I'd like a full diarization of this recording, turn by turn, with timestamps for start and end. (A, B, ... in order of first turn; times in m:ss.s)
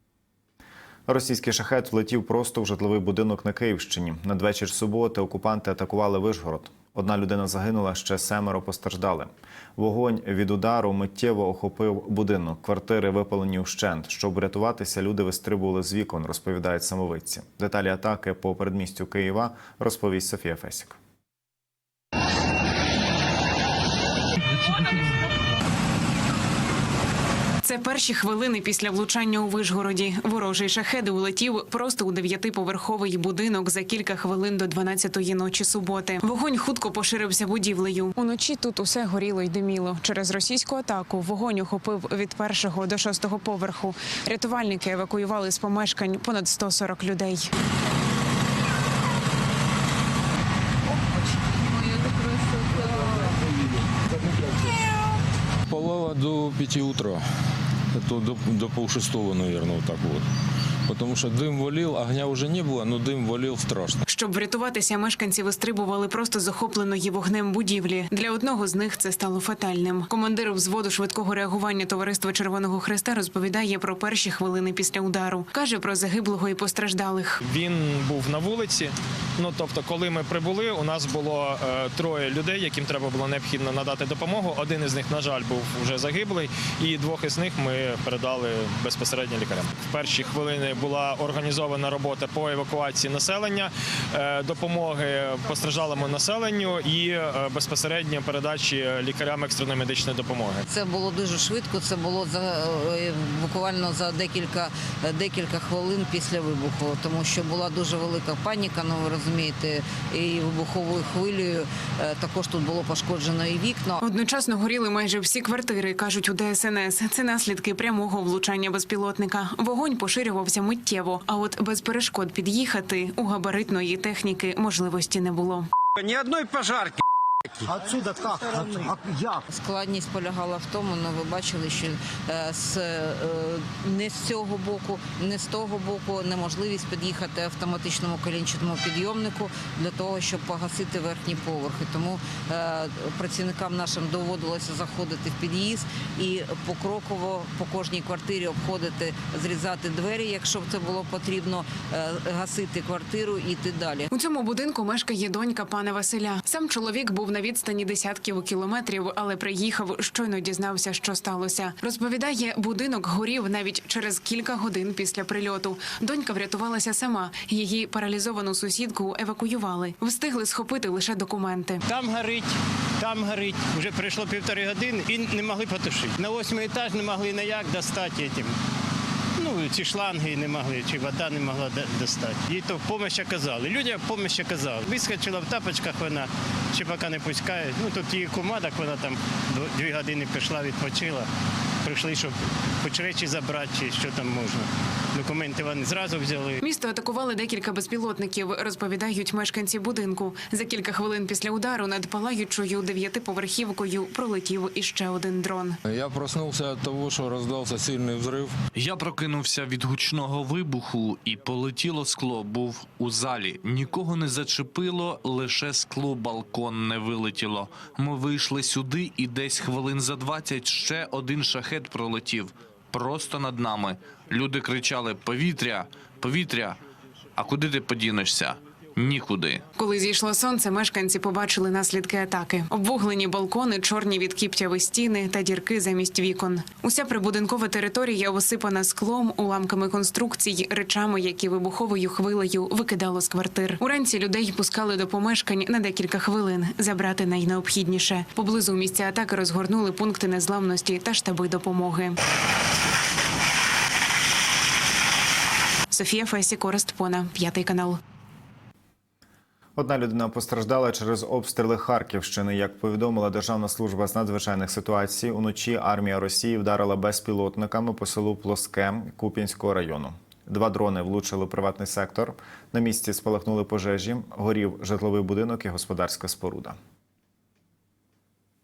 0:01.1-0:21.0 A
0:27.6-0:47.5 B
0:55.7-0:57.2 C
0:57.9-1:00.2 C
1:00.9-1:04.0 C
1:04.1-1:17.4 B
1:17.4-1:40.6 D
1:40.7-1:54.0 E
1:54.0-2:05.7 B
2:06.2-2:06.5 F
2:07.7-2:09.3 F
2:09.5-2:34.1 E
2:34.1-2:51.8 B
2:51.9-2:58.5 G
2:59.4-3:11.3 G
3:11.8-3:16.6 G
3:16.6-3:25.8 B
3:25.8-3:28.5 C
3:28.7-3:46.8 H
3:47.4-3:49.6 H
3:49.8-4:12.2 B
4:15.9-4:18.0 B
4:19.8-4:36.8 A